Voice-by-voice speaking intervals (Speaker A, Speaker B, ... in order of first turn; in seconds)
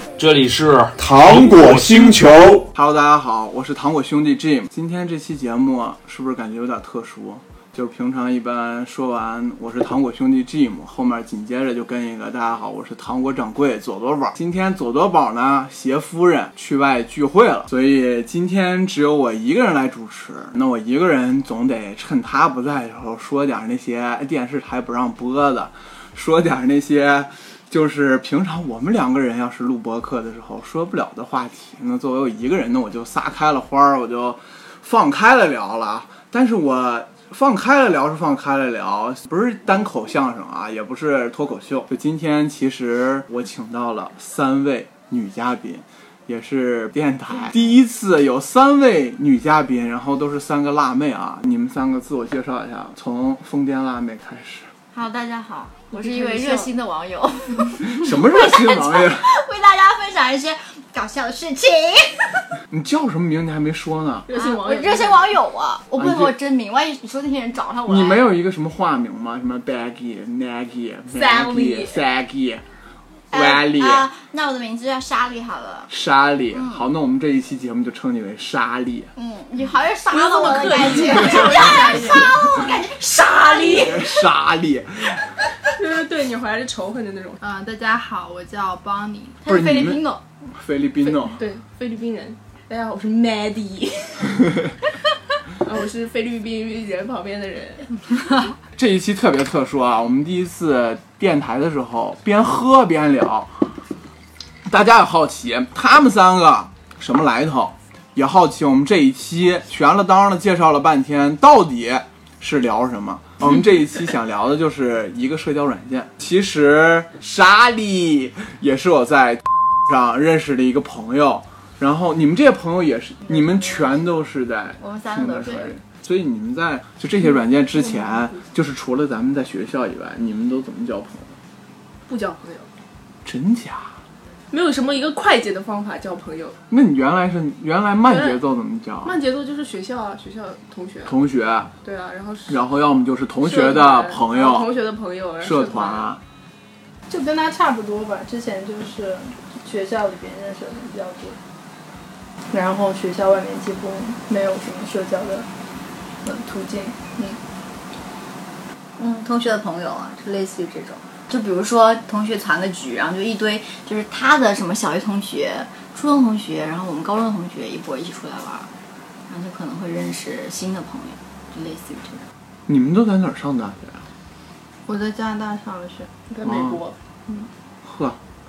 Speaker A: 0.2-2.6
Speaker B: 1.1-54.7, 57.8-59.2, 62.7-64.3, 66.0-66.3, 67.9-72.6, 73.3-74.0, 75.9-79.1, 83.6-85.2, 89.5-91.4, 98.8-103.6, 104.7-131.3, 133.2-133.9, 136.7-139.2, 141.1-141.7, 142.5-144.7, 145.4-146.2, 172.7-174.1, 176.4-176.8, 177.8-178.2
Speaker C: 54.9-62.4, 64.3-68.2, 73.3-75.9, 76.5-76.9, 79.2-84.1, 89.4-90.2, 124.8-125.8, 159.0-168.7, 169.3-172.3
Speaker D: 55.9-56.7, 64.3-65.3, 71.1-72.0, 80.1-82.3, 85.7-87.4, 91.2-94.4, 95.6-97.9, 127.9-128.3, 132.1-132.7, 134.5-136.6, 138.1-138.4, 139.0-141.2, 141.8-142.6, 143.4-146.1, 176.3-176.9
Speaker E: 81.3-81.9, 87.4-89.5, 147.1-151.4, 152.5-155.5, 156.2-157.4, 174.9-176.2